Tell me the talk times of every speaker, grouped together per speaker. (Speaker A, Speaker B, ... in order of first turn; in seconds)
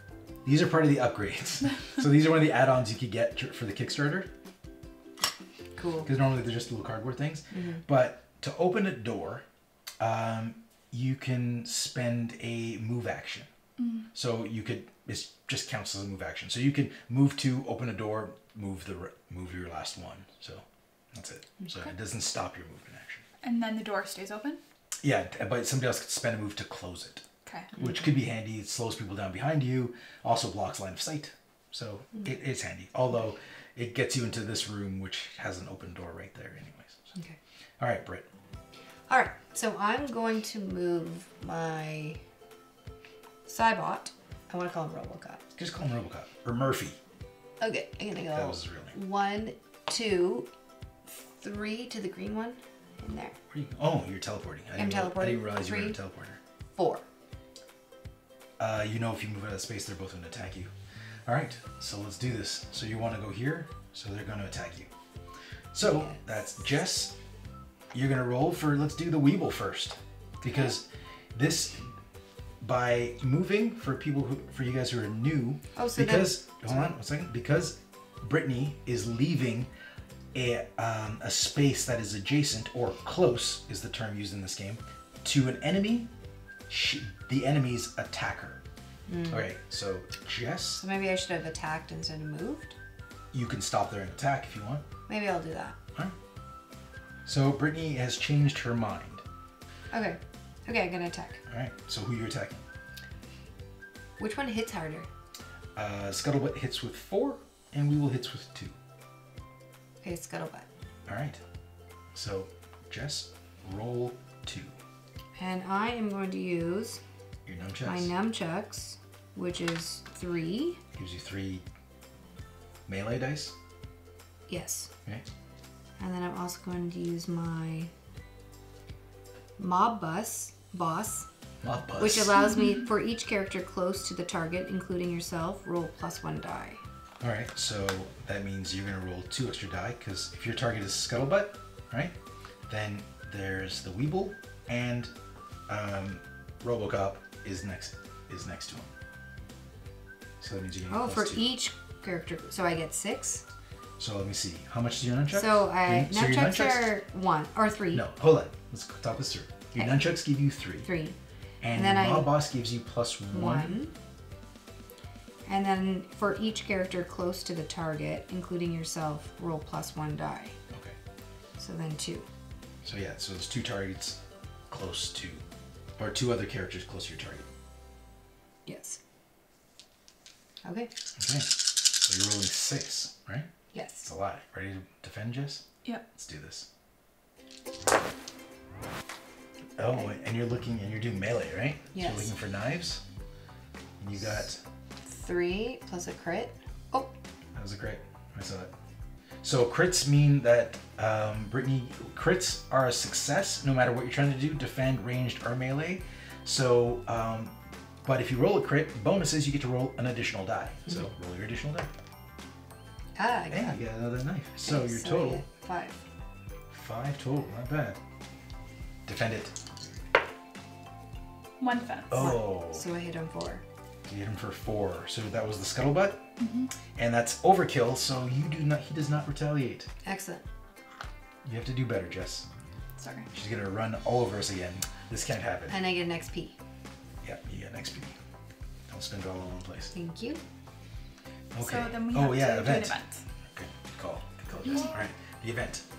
Speaker A: 0.4-4.3, 6.0-9.4, 10.0-13.5, 14.1-23.2, 25.0-27.2, 27.8-37.1, 37.8-38.3, 45.5-47.0, 48.3-48.9, 53.5-56.4, 58.6-60.7, 61.2-64.9, 65.7-67.2, 67.9-71.9, 72.6-79.7, 80.3-86.1, 86.7-88.6, 89.3-90.8, 93.3-94.8, 97.2-99.2, 101.5-102.6, 105.8-108.8, 111.1-111.4, 112.1-114.7, 117.5-118.1, 121.0-121.6, 122.9-123.5, 131.6-132.3, 137.2-142.1, 142.7-145.1, 145.7-148.9, 150.4-151.5, 154.0-156.9, 157.9-160.9, 161.6-163.8, 170.7-171.0, 172.8-175.4, 176.0-177.4, 181.2-183.5, 184.0-185.6, 186.2-186.7, 189.8-193.0, 194.0-194.6, 197.5-198.7, 199.4-211.9, 213.5-215.4, 216.7-218.0, 219.1-219.6, 222.1-222.8, 224.1-226.2, 226.9-229.9, 231.4-232.5, 233.3-235.8, 237.2-238.2, 238.9-239.9, 241.5-243.0, 243.5-245.8
Speaker B: 5.8-6.1, 7.5-7.8, 39.1-42.2, 43.5-45.4, 47.6-50.5, 51.1-53.3, 54.8-56.0, 56.7-57.0, 65.8-66.2, 75.7-76.9, 89.1-89.5, 90.8-92.8, 95.1-95.8, 99.9-101.4, 104.2-105.1, 110.0-110.7, 115.4-117.0, 117.8-120.8, 124.5-124.9, 126.0-127.9, 129.6-131.3, 132.0-136.8, 150.9-153.4, 155.3-158.0, 159.7-160.0, 160.8-161.2, 161.7-162.3, 163.3-163.9, 165.5-170.5, 171.6-172.2, 178.7-179.0, 180.6-180.9, 183.7-184.1, 191.9-192.3, 195.0-197.1, 213.2-213.8, 214.6-216.0, 222.2-223.6, 230.0-230.4, 235.7-236.6, 239.9-240.4
Speaker C: 13.8-14.1, 23.4-24.6, 27.4-27.7, 221.6-222.4, 226.4-226.7, 233.0-233.3, 241.6-243.2